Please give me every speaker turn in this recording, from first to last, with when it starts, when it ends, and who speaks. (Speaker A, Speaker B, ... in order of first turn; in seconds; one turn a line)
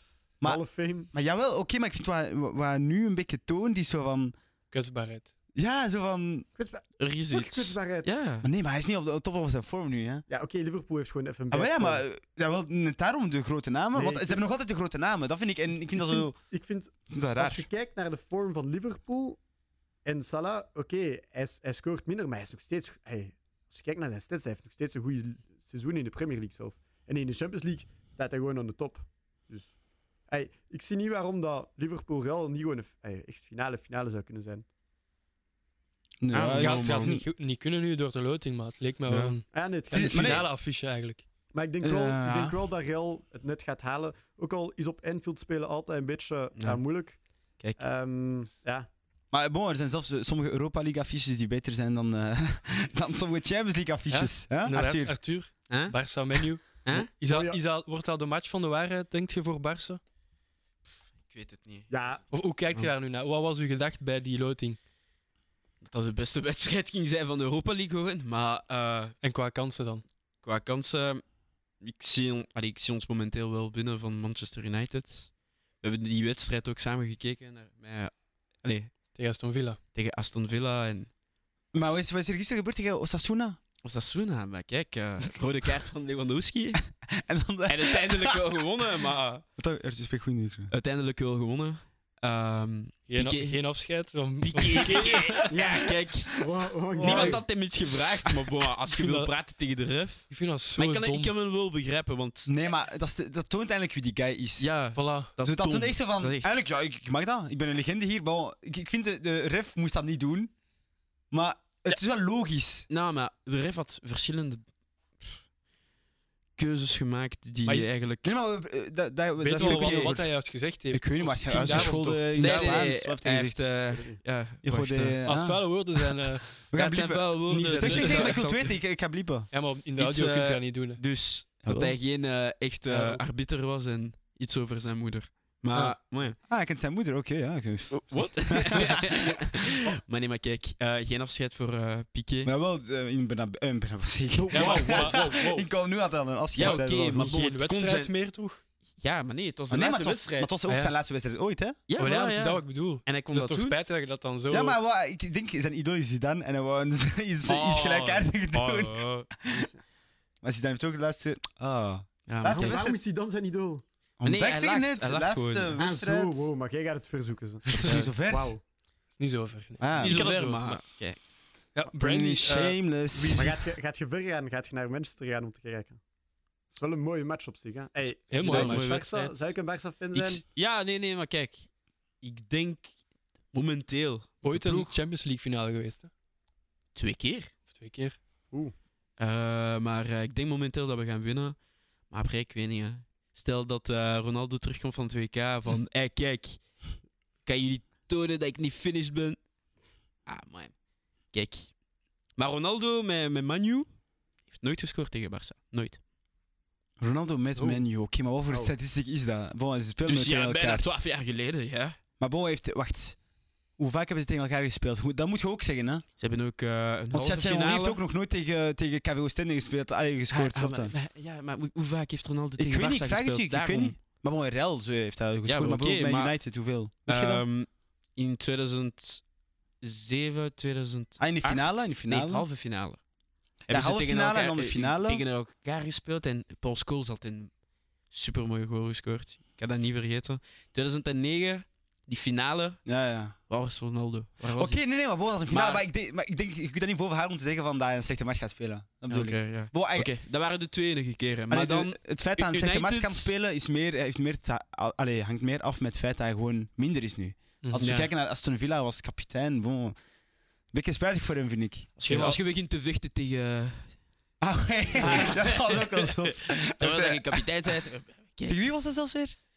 Speaker A: 0.4-4.3
Speaker B: 0.4-1.1
Speaker C: 4.7-5.3
Speaker A: 5.5-6.5
Speaker B: 6.5-8.2
Speaker D: 7.0-8.5
Speaker A: 8.4-10.2
Speaker B: 10.3-12.0
Speaker A: 11.5-16.4
Speaker B: 13.9-14.5
Speaker B: 15.9-19.4
Speaker A: 17.1-17.7
Speaker B: 20.0-29.8
Speaker B: 30.3-34.6
Speaker A: 36.2-37.2
Speaker D: 36.3-37.1
Speaker C: 36.6-41.2
Speaker D: 39.1-39.4
Speaker B: 39.5-40.5
Speaker A: 39.9-40.5
Speaker B: 41.5-47.2
Speaker A: 41.8-42.5
Speaker D: 46.6-47.8
Speaker B: 47.8-48.9
Speaker A: 49.3-55.2
Speaker C: 54.1-60.0
Speaker D: 55.7-56.0
Speaker D: 56.8-57.1
Speaker B: 57.2-57.6
Speaker D: 61.1-61.9
Speaker B: 61.9-62.2
Speaker C: 62.3-64.8
Speaker D: 65.8-69.2
Speaker C: 69.2-70.0
Speaker D: 70.4-71.2
Speaker D: 71.8-78.9
Speaker C: 79.1-79.8
Speaker D: 79.9-81.1
Speaker A: 81.7-83.6
Speaker D: 83.8-86.8
Speaker A: 87.1-88.4
Speaker D: 87.7-89.4
Speaker A: 89.6-90.7
Speaker D: 90.7-93.6
Speaker C: 93.1-95.5
Speaker D: 94.4-96.4
Speaker B: 95.5-95.8
Speaker B: 96.3-97.4
Speaker D: 97.0-102.5
Speaker C: 97.0-97.4
Speaker C: 98.9-99.3
Speaker C: 100.3-101.3
Speaker A: 102.5-104.7
Speaker D: 104.6-106.7
Speaker C: 105.0-105.3
Speaker A: 105.4-110.5
Speaker A: 111.3-112.8
Speaker D: 112.9-114.7
Speaker D: 116.6-118.3
Speaker A: 118.2-120.3
Speaker C: 119.4-122.8
Speaker D: 119.6-120.1
Speaker A: 120.9-123.7
Speaker D: 121.6-125.2
Speaker B: 123.9-124.2
Speaker A: 124.6-126.0
Speaker C: 125.2-126.5
Speaker A: 126.7-129.5
Speaker D: 126.7-128.8
Speaker C: 127.5-128.4
Speaker C: 129.5-131.0
Speaker D: 130.0-136.4
Speaker A: 131.6-132.0
Speaker C: 132.9-133.2
Speaker A: 136.5-139.2
Speaker D: 137.9-142.5
Speaker A: 142.4-147.3
Speaker D: 144.3-145.6
Speaker C: 144.5-145.5
Speaker D: 146.5-148.1
Speaker C: 146.6-148.6
Speaker D: 149.0-150.5
Speaker A: 149.7-151.8
Speaker C: 150.7-150.9
Speaker D: 151.9-153.8
Speaker C: 152.0-154.8
Speaker A: 154.5-159.7
Speaker D: 157.5-159.3
Speaker B: 159.5-159.8
Speaker A: 160.4-163.0
Speaker D: 162.3-162.8
Speaker B: 162.4-163.8
Speaker A: 164.2-166.5
Speaker D: 164.2-165.8
Speaker B: 165.8-168.6
Speaker A: 167.8-168.5
Speaker D: 167.8-168.1
Speaker C: 169.2-170.8
Speaker A: 169.8-170.2
Speaker D: 170.0-171.2
Speaker C: 171.7-173.5
Speaker A: 171.9-173.6
Speaker B: 173.3-176.0
Speaker B: 176.7-180.4
Speaker C: 178.3-179.3
Speaker D: 178.4-179.3
Speaker D: 180.1-182.9
Speaker D: 183.5-184.9
Speaker C: 184.4-186.1
Speaker D: 186.9-187.5
Speaker C: 187.7-188.2
Speaker D: 189.2-199.4
Speaker D: 200.2-200.8
Speaker D: 201.3-201.7
Speaker D: 202.3-203.9
Speaker D: 204.5-206.0
Speaker A: 207.0-210.9
Speaker B: 208.5-208.7
Speaker D: 210.0-212.0
Speaker A: 212.2-213.2
Speaker A: 213.8-216.0
Speaker D: 216.2-218.0
Speaker A: 217.1-220.9
Speaker D: 220.3-224.0
Speaker A: 222.6-227.4
Speaker D: 225.4-226.5
Speaker D: 227.1-229.3
Speaker D: 229.8-233.0
Speaker A: 231.2-232.4
Speaker D: 233.7-237.5
Speaker A: 233.7-235.2
Speaker D: 238.1-242.8
Speaker A: 242.8-243.3
Speaker D: 243.5-244.8
Speaker A: 244.5-250.1
Speaker D: 245.5-245.8
Speaker D: 249.1-253.3
Speaker A: 251.5-260.0
Speaker C: 257.6-257.9
Speaker D: 257.8-258.1
Speaker A: 260.7-261.9
Speaker D: 262.0-264.0
Speaker C: 262.0-262.4
Speaker A: 264.4-267.5
Speaker D: 265.0-268.7
Speaker A: 268.5-269.3